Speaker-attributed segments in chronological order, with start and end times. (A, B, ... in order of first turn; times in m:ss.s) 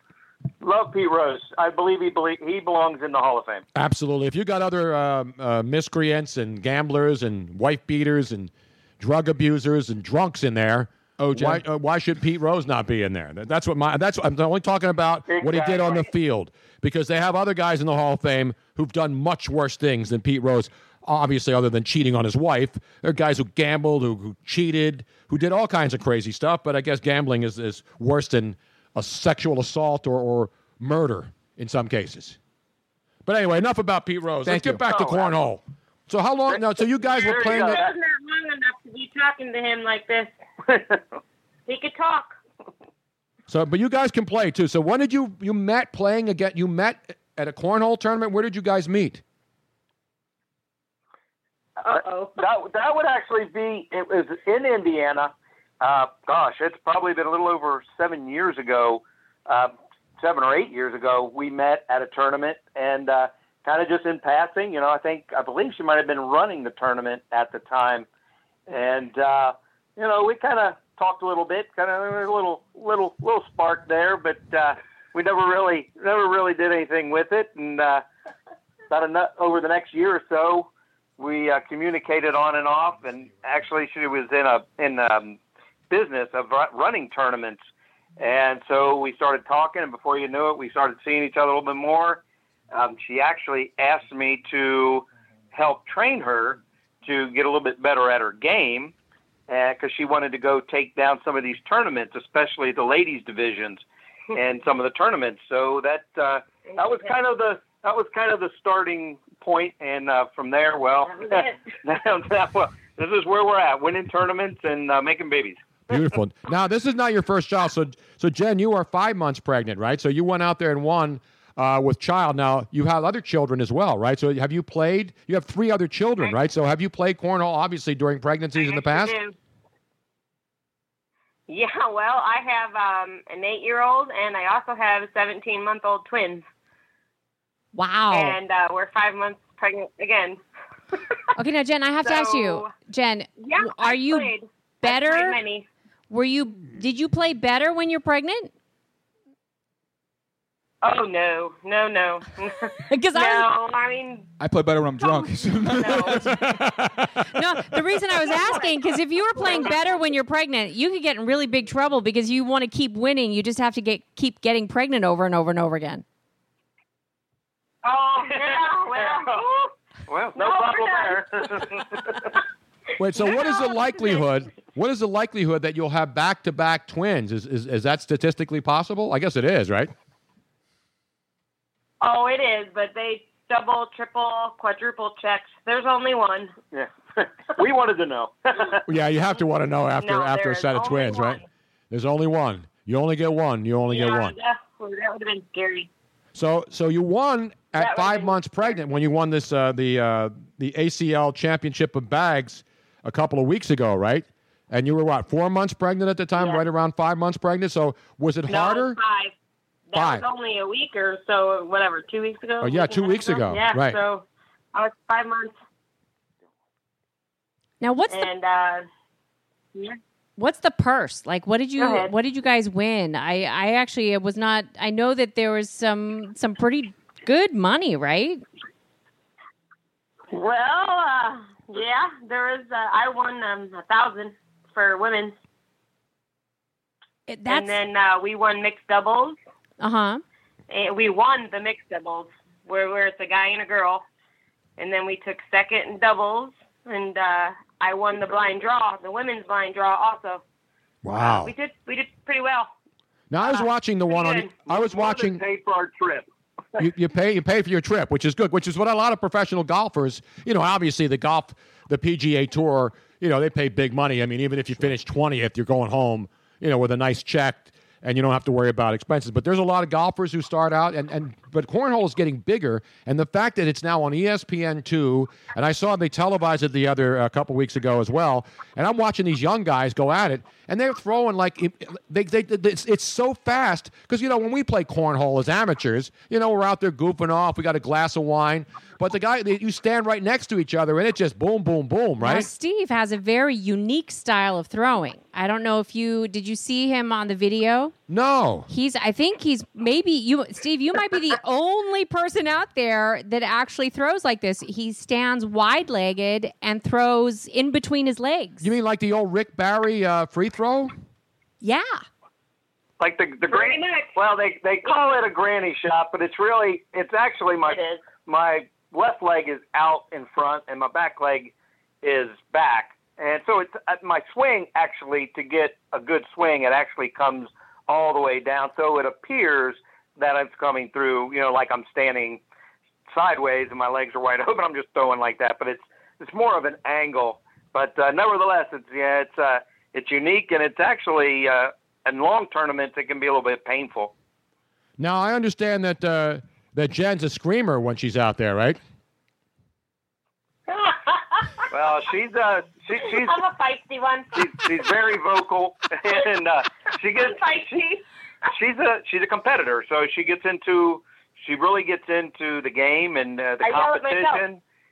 0:00.6-0:03.6 A
0:03.7-0:32.4 B
0:11.2-0:11.6 C
0:15.3-0:16.1 A
0:33.2-0:37.8 B
0:34.4-0:34.8 C
0:34.8-0:35.3 A
0:36.5-0:37.9 A
0:37.2-0:40.3 D
0:40.7-0:41.0 A
0:41.7-0:42.4 D
0:43.5-0:49.2 B
0:51.8-0:52.4 D
0:51.9-1:08.0 A
1:08.7-1:18.0 A
1:18.9-1:25.4 A
1:25.9-1:27.6 A
1:28.2-1:38.9 A
1:39.5-1:43.8 A
1:44.3-1:55.6 A
1:46.7-1:47.1 D
1:51.0-1:51.6 D
1:55.9-2:09.1 B
2:08.6-2:09.3 D
2:11.5-2:16.4 D
2:17.7-2:18.4 E
2:18.1-2:20.4 D
2:21.4-2:25.4 E
2:22.0-2:22.8 D
2:23.4-2:25.6 D
2:26.1-2:28.5 E
2:30.8-2:34.3 D
2:32.9-2:33.5 E
2:34.4-2:36.5 C
2:35.0-2:36.6 D
2:36.4-2:36.9 B
2:37.2-2:46.0 E
2:38.2-2:39.8 D
2:47.8-2:49.7 D
2:48.2-2:49.4 A
2:50.1-2:52.3 A
2:50.3-2:51.2 D
2:53.0-2:59.9 B
2:53.2-2:54.2 D
3:02.0-3:06.5 D
3:06.7-3:08.8 A
3:08.8-3:14.3 B
3:10.0-3:11.4 D
3:13.9-3:15.9 D
3:16.3-3:29.0 B
3:17.7-3:18.8 D
3:26.4-3:26.6 D
3:28.5-3:29.3 D
3:29.9-3:35.6 D
3:29.9-3:30.2 B
3:32.6-3:34.0 B
3:37.8-3:38.3 E
3:38.1-3:38.8 D
3:40.4-3:48.4 E
3:41.8-3:42.1 D
3:50.3-3:55.4 D
3:57.3-3:57.8 E
3:57.5-3:59.4 D
3:59.8-4:00.2 E
4:00.7-4:04.0 D
4:04.8-4:10.4 D
4:11.0-4:11.5 B
4:11.2-4:12.7 D
4:13.3-4:15.4 B
4:13.4-4:14.6 D
4:14.6-4:16.2 A
4:16.8-4:52.5 B
4:52.2-4:57.9 E
4:58.1-4:58.7 B
4:58.7-5:08.7 E
5:08.6-5:10.9 B
5:11.6-5:12.0 E
5:13.0-5:32.4 A
5:13.5-5:14.1 D
5:17.7-5:18.1 D
5:33.1-5:44.1 A
5:45.0-5:48.8 B
5:50.7-5:51.0 D
5:51.7-5:53.4 A
5:53.0-5:54.7 D
5:54.3-5:57.4 A
5:57.1-5:58.0 D
5:58.5-6:04.6 A
6:03.6-6:04.4 D